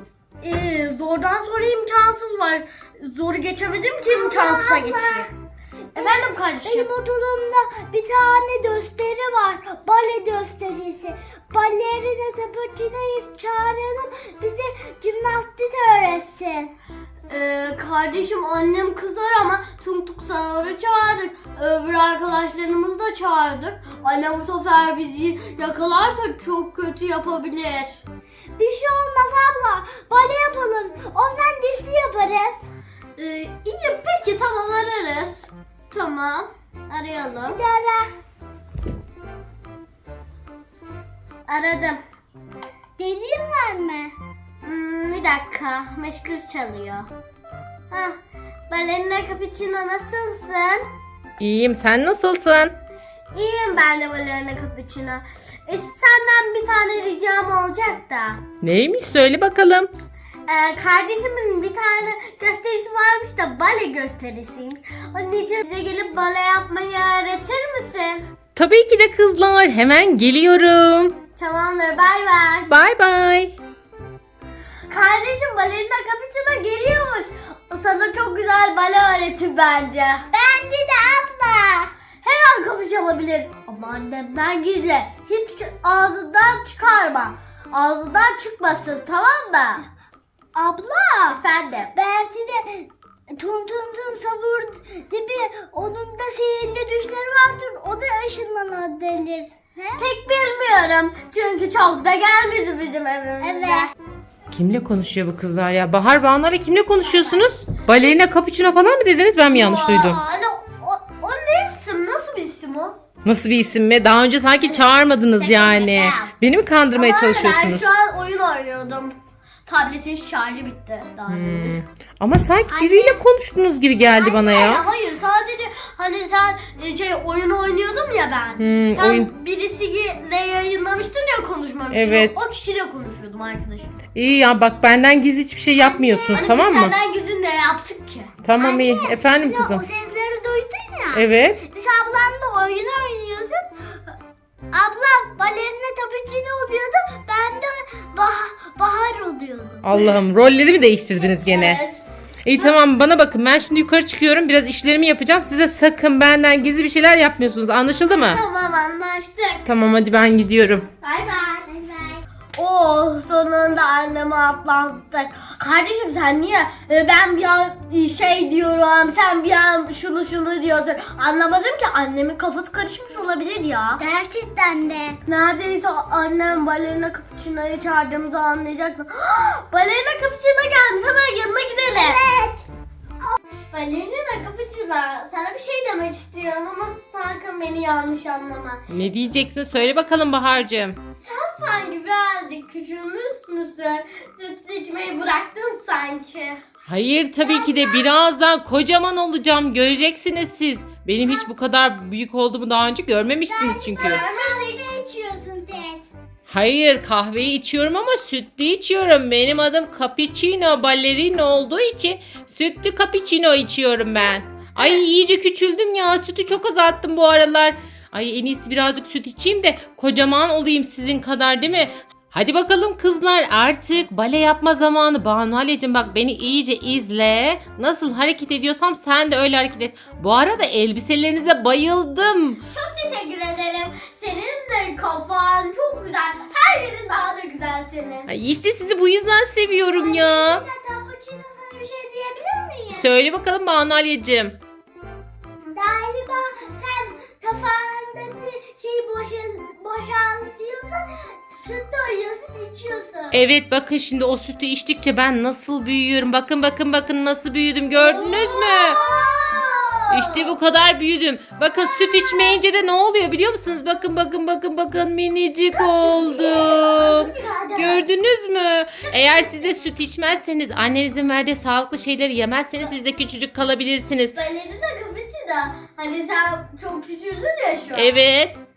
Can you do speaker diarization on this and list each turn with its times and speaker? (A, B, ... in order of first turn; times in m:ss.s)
0:00.4-0:05.3 A
0:04.0-0:05.3 B
0:05.9-0:06.9 A
0:05.9-0:16.7 B
0:17.3-0:28.0 A
0:28.6-0:32.7 B
0:33.2-0:37.6 A
0:37.5-0:38.1 B
0:41.5-0:42.0 A
0:43.0-0:44.1 B
0:44.6-0:47.1 A
0:47.9-0:48.2 A
0:48.7-0:50.9 A
0:51.4-0:52.7 C
0:53.3-0:58.4 A
0:58.6-0:59.9 C
1:00.5-1:08.2 A
1:08.5-1:11.2 C
1:11.4-1:12.7 A
1:12.7-1:13.5 C
1:14.9-1:20.3 A
1:20.3-1:21.9 B
1:22.2-1:29.9 A
1:30.5-1:31.4 B
1:31.4-1:31.9 A
1:31.9-1:40.0 B
1:40.0-1:43.9 A
1:43.4-1:43.9 B
1:44.5-1:50.2 C
1:47.1-1:47.5 B
1:49.5-1:53.0 A
1:53.2-1:57.9 C
1:55.4-1:56.3 A
1:56.9-2:01.8 A
2:01.3-2:04.8 C
2:02.7-2:03.2 A
2:04.0-2:13.9 A
2:08.6-2:09.3 C
2:11.9-2:12.3 C
2:14.1-2:16.9 C
2:15.8-2:16.4 B
2:16.3-2:18.3 A
2:18.4-2:19.8 C
2:18.6-2:23.7 B
2:21.1-2:21.6 C
2:24.7-2:29.8 B
2:29.8-2:31.8 C
2:31.2-2:32.0 A
2:32.4-2:38.4 C
2:38.1-2:39.6 A
2:39.6-2:40.9 C
2:41.0-2:41.8 A
2:41.8-2:42.2 B
2:42.5-2:54.0 A
2:54.0-2:55.2 B
2:55.2-3:02.2 A
3:01.9-3:02.6 B
3:03.7-3:08.8 A
3:08.9-3:11.0 C
3:11.1-3:16.6 A
3:16.9-3:24.2 C
3:17.4-3:18.0 A
3:23.5-3:26.1 B
3:24.0-3:24.8 A
3:26.5-3:52.6 C
3:34.8-3:35.0 B
3:52.7-3:58.3 A
3:58.3-4:00.6 C
3:59.9-4:03.0 B
4:02.9-4:04.6 C
4:05.6-4:13.4 B
4:13.3-4:19.0 C
4:18.1-4:20.0 B
4:20.1-4:34.3 C
4:25.9-4:27.8 B
4:29.0-4:29.7 A
4:34.4-4:38.1 A
4:37.9-4:38.6 C